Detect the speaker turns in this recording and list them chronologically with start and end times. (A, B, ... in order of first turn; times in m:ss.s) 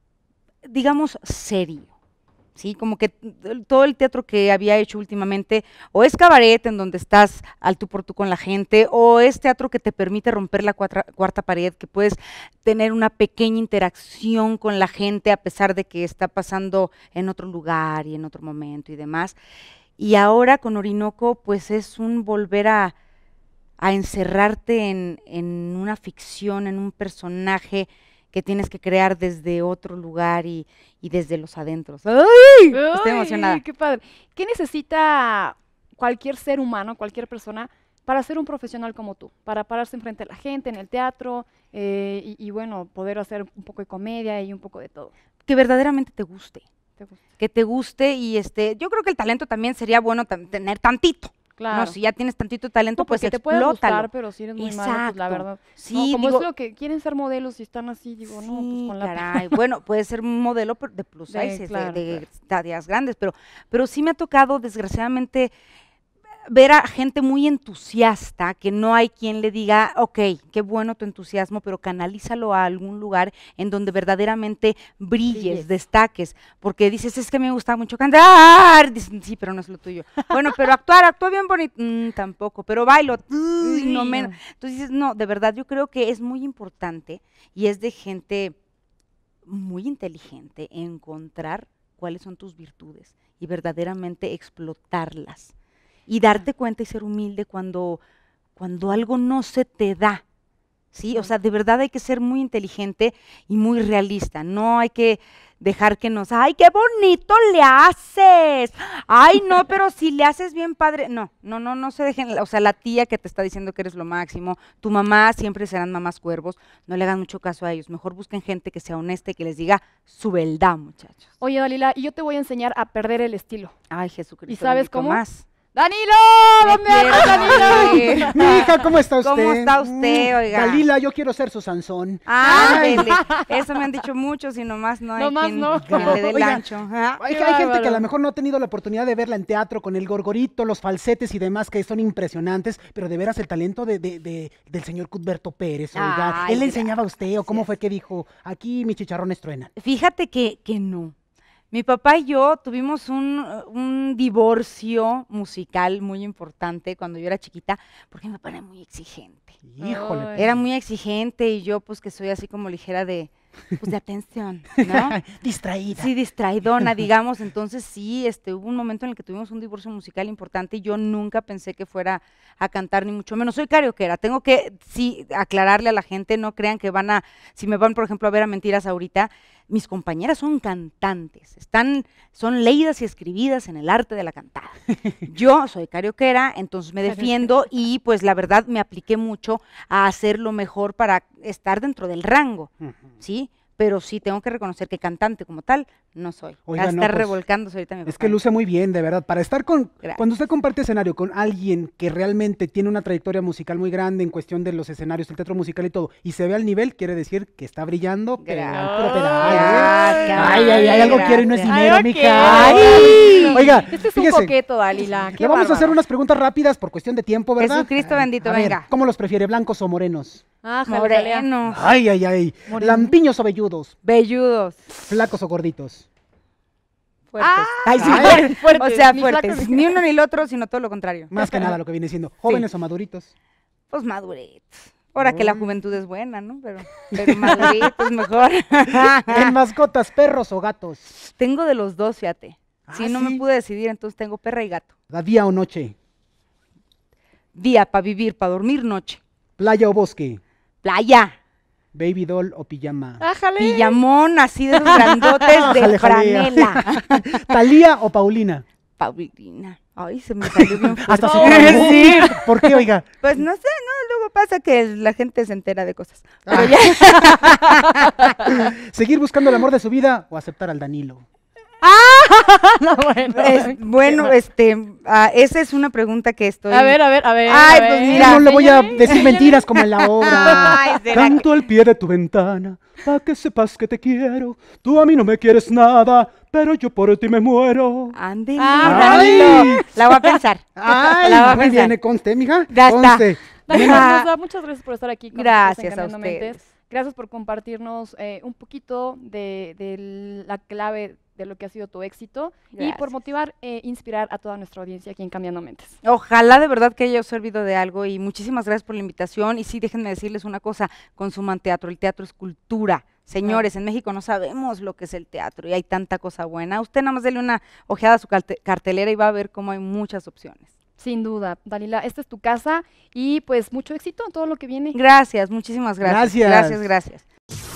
0:00.6-0:01.9 A
0:02.6-0:19.4 A
0:20.0-0:22.9 A
0:23.8-0:33.6 A
0:32.7-0:45.1 B
0:45.4-0:46.6 A
0:47.4-0:56.5 A
0:51.6-0:52.0 B
0:53.0-0:59.5 B
0:58.3-1:05.5 A
1:01.3-1:02.2 B
1:06.5-1:28.6 A
1:15.3-1:15.7 B
1:23.6-1:24.3 B
1:29.4-1:35.5 A
1:36.1-1:38.0 A
1:38.6-1:40.2 A
1:40.9-2:01.3 A
2:01.4-2:03.7 B
2:03.9-2:05.4 A
2:04.5-2:05.2 B
2:05.7-2:08.8 B
2:06.6-2:08.6 A
2:07.3-2:13.1 C
2:09.2-2:10.8 A
2:12.2-2:17.2 A
2:12.4-2:13.6 B
2:15.2-2:16.2 B
2:15.8-2:16.6 C
2:17.2-2:29.7 C
2:17.2-2:18.1 B
2:25.9-2:27.7 A
2:29.8-2:31.1 A
2:31.7-2:39.6 A
2:39.6-2:40.6 C
2:39.8-2:40.4 B
2:40.3-2:45.2 A
2:44.8-2:46.1 C
2:45.9-3:18.4 A
3:07.0-3:07.4 B
3:16.7-3:17.4 C
3:18.1-3:34.6 C
3:28.4-3:31.8 A
3:28.7-3:36.0 B
3:32.3-3:33.7 A
3:35.3-3:40.4 C
3:37.6-3:38.9 A
3:40.6-3:41.5 B
3:40.9-3:41.8 A
3:41.7-3:43.9 C
3:42.7-3:43.1 B
3:44.0-3:44.8 A
3:45.1-3:46.1 C
3:47.3-3:51.3 A
3:47.4-3:49.9 B
3:47.9-3:48.6 C
3:51.3-3:53.3 C
3:51.4-3:51.8 B
3:53.9-3:59.5 A
3:55.2-3:55.7 C
3:57.1-3:57.8 C
3:58.9-4:01.0 C
4:01.1-4:04.9 A
4:02.9-4:03.4 C
4:05.1-4:05.9 C
4:07.6-4:09.2 A
4:09.6-4:10.4 C
4:10.8-4:11.3 A
4:11.9-4:13.2 C
4:13.2-4:14.0 B
4:13.6-4:17.4 A
4:14.8-4:15.5 B
4:15.5-4:18.6 C
4:19.0-4:22.4 A
4:20.4-4:23.1 C
4:21.2-4:22.5 B
4:23.2-4:28.5 A
4:26.5-4:27.0 C
4:27.5-4:28.3 B
4:28.5-4:31.2 C
4:31.8-4:34.4 B
4:33.3-4:38.5 A
4:36.7-4:39.7 B
4:38.0-4:48.2 C
4:39.0-4:39.4 A
4:40.0-4:41.4 A
4:40.2-4:41.0 B
4:48.1-4:51.9 A
4:48.6-4:50.3 B
4:48.8-4:49.9 C
4:50.8-4:54.1 C
4:51.2-4:51.8 B
4:52.7-4:54.3 A
4:53.7-5:05.9 B
4:55.3-4:56.6 A
5:02.7-5:03.1 A
5:06.0-5:20.7 A
5:13.4-5:13.7 B
5:21.0-5:25.0 B
5:24.9-5:27.2 A
5:26.0-5:26.8 C